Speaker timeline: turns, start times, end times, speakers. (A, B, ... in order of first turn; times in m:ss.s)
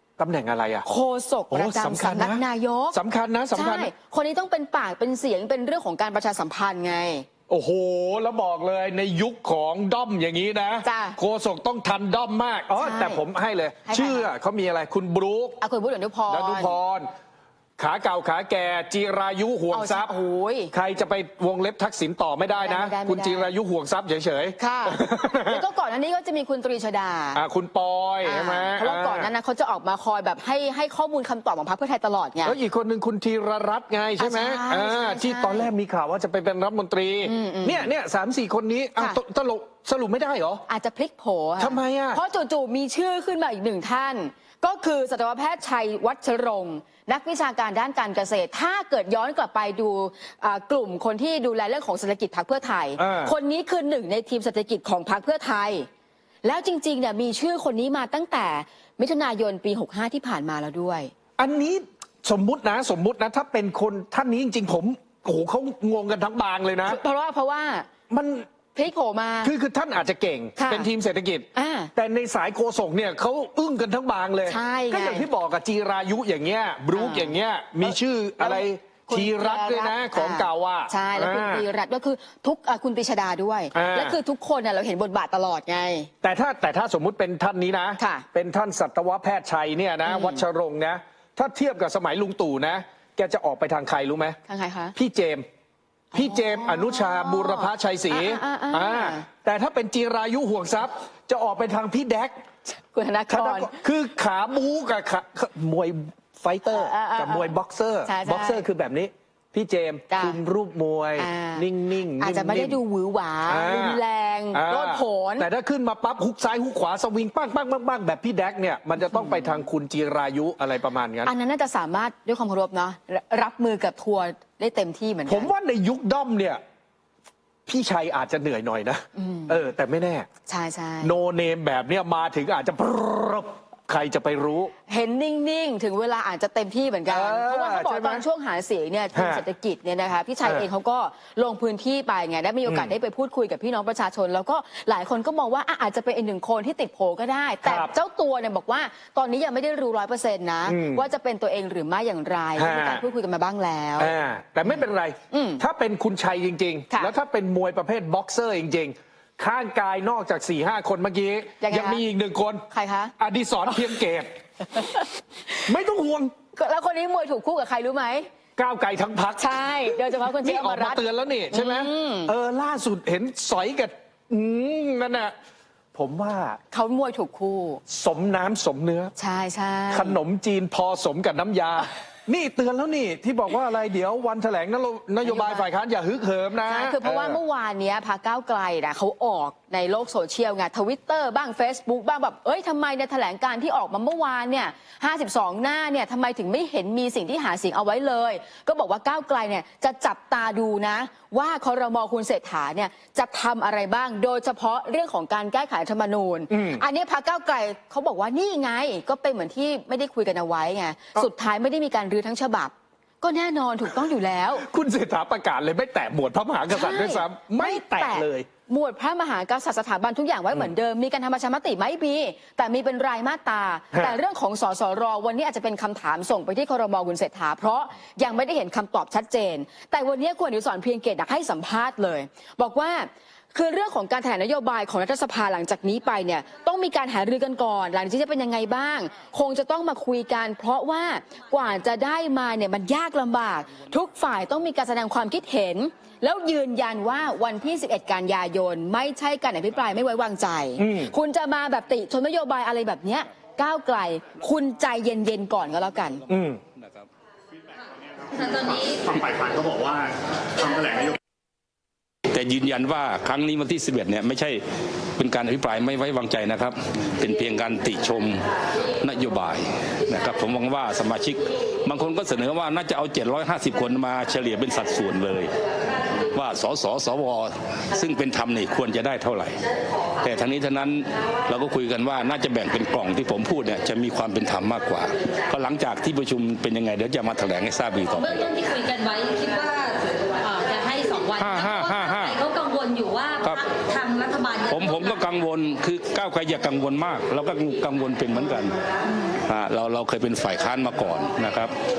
0:00.2-0:00.8 A
0:00.8-0:03.0 B
0:01.5-0:03.9 A
0:03.5-0:07.2 B
0:07.5-0:15.6 A
0:10.8-0:11.2 B
0:12.7-0:13.2 B
0:13.8-0:14.3 B
0:15.6-0:16.8 B
0:16.3-0:17.1 A
0:17.8-0:20.1 A
0:19.7-0:20.7 B
0:20.7-0:25.6 A
0:22.5-0:23.5 B
0:24.6-0:27.4 B
0:27.3-0:29.3 A
0:28.2-0:32.6 B
0:32.4-0:40.6 A
0:34.2-0:35.7 B
0:37.2-0:37.9 B
0:40.7-0:55.9 B
0:41.6-0:42.2 A
0:53.0-0:53.3 A
0:56.4-1:01.1 B
1:01.4-1:07.0 A
1:06.8-1:07.9 B
1:08.1-1:08.4 A
1:08.7-1:09.5 B
1:09.4-1:21.6 A
1:10.6-1:10.9 B
1:11.5-1:11.9 B
1:14.4-1:15.3 B
1:16.9-1:26.1 B
1:23.7-1:24.2 A
1:26.2-1:34.4 A
1:28.0-1:28.2 B
1:30.0-1:30.4 B
1:34.5-1:35.0 B
1:35.0-1:35.4 A
1:36.1-1:42.4 A
1:36.1-1:39.2 B
1:42.6-1:43.8 B
1:43.3-1:52.8 A
1:46.7-1:47.5 B
1:48.0-1:48.6 B
1:50.1-1:50.4 B
1:51.2-1:55.5 B
1:53.5-1:54.0 A
1:54.5-2:01.3 A
1:59.0-1:59.6 B
2:01.2-2:05.5 B
2:05.3-2:06.6 A
2:07.6-2:10.3 A
2:09.2-2:09.6 B
2:10.5-2:11.2 B
2:11.0-2:14.7 A
2:14.9-2:34.1 B
2:17.1-2:18.2 A
2:19.1-2:19.4 A
2:22.6-2:22.9 A
2:27.6-2:27.9 A
2:30.7-2:31.0 A
2:32.6-2:33.0 A
2:34.0-2:42.6 A
2:35.3-2:35.6 B
2:41.6-2:42.0 B
2:42.7-2:43.1 B
2:43.2-2:44.3 A
2:44.7-2:45.1 B
2:45.7-2:46.3 A
2:46.5-2:48.3 B
2:48.6-2:55.3 A
2:49.4-2:52.3 B
2:55.9-2:56.6 A
2:56.7-2:57.8 B
2:57.9-2:59.1 A
2:59.2-3:00.2 B
2:59.9-3:07.4 A
3:05.2-3:05.6 B
3:06.6-3:34.6 B
3:26.5-3:26.8 A
3:34.6-3:38.5 A
3:36.7-4:16.2 B
3:43.9-3:44.2 A
4:10.8-4:11.1 A
4:16.3-4:16.6 A
4:16.8-4:17.1 C
4:18.3-4:19.0 D
4:18.9-4:21.2 E
4:22.3-4:24.6 C
4:25.2-4:28.4 C
4:29.0-4:35.5 C
4:36.3-4:39.6 C
4:40.2-4:48.5 C
4:48.1-4:55.2 D
4:51.4-4:52.4 C
4:54.7-4:58.8 C
4:59.4-5:01.7 C